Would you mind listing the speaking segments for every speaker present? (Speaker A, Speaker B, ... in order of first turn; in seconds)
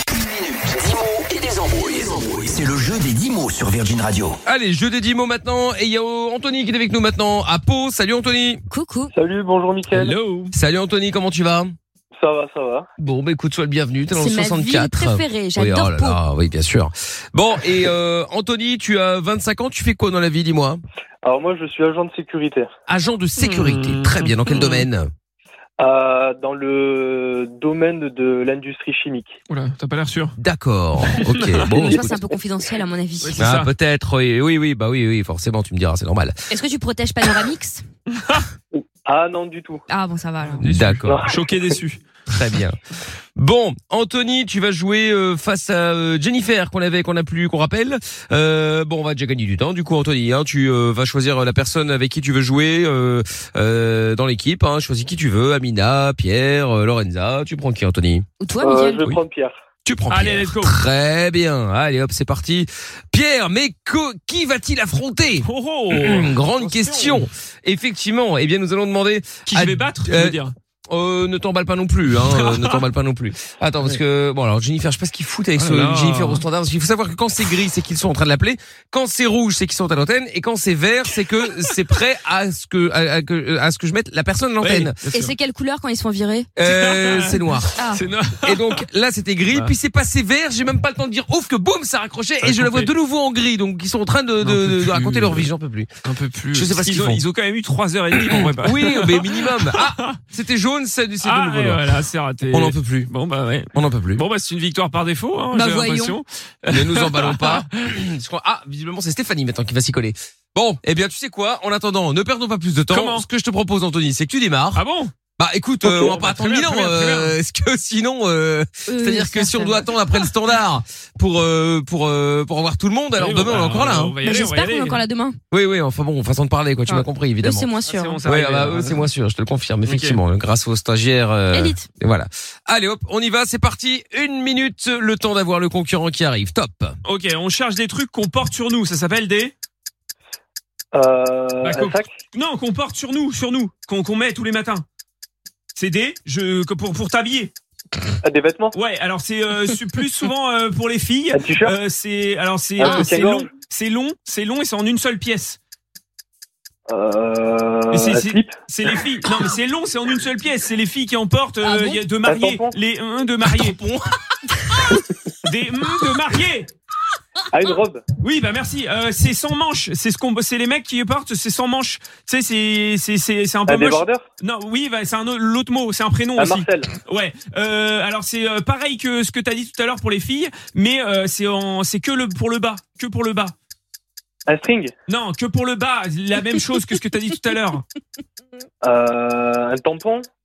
Speaker A: 0.1-4.4
Speaker B: 4.5-8.6, 10.5-11.7, 13.0-20.8, 22.9-25.1, 30.4-32.1, 33.4-36.4, 40.6-41.2, 42.3-42.8, 43.4-58.3, 59.9-85.0, 86.6-87.7, 88.4-95.9, 96.5-97.2, 98.2-101.8, 102.5-103.1, 103.7-104.2, 106.7-114.8, 115.4-124.2, 125.5-127.7, 128.2-137.0, 163.5-164.2
Speaker C: 8.7-9.1, 14.1-16.2, 31.7-33.4, 36.5-37.9, 39.9-40.6, 58.4-59.0, 85.1-86.5, 87.8-88.0, 105.5-106.2, 118.9-120.2, 124.2-125.4, 126.9-128.2, 131.5-131.9, 152.8-153.1, 161.6-162.0
Speaker D: 9.1-10.2, 12.2-12.9, 21.2-22.7, 25.8-29.4, 38.7-39.9, 41.1-41.4, 58.6-59.6, 140.9-142.1, 148.2-148.8, 151.3-151.8, 152.8-153.5, 156.9-158.5, 162.2-162.8, 167.5-168.0, 173.7-174.2, 176.4-176.9, 184.5-184.9, 188.8-190.3
Speaker E: 9.9-10.5, 23.4-24.9, 29.5-30.4, 31.0-31.7, 33.2-33.7, 38.2-38.5, 40.4-42.1, 60.1-60.8, 65.4-67.3, 69.5-70.5, 72.2-72.8, 75.6-76.4, 84.6-85.3, 86.6-88.8, 92.4-92.9, 94.4-95.5, 96.0-100.2, 101.2-107.9, 112.9-113.3, 114.8-115.1, 115.8-117.4, 123.2-125.0, 127.8-129.1, 129.9-130.2, 137.0-139.5, 141.6-144.8, 145.8-147.5, 148.7-155.6, 157.9-163.8, 165.4-166.7, 168.2-183.6, 185.1-187.8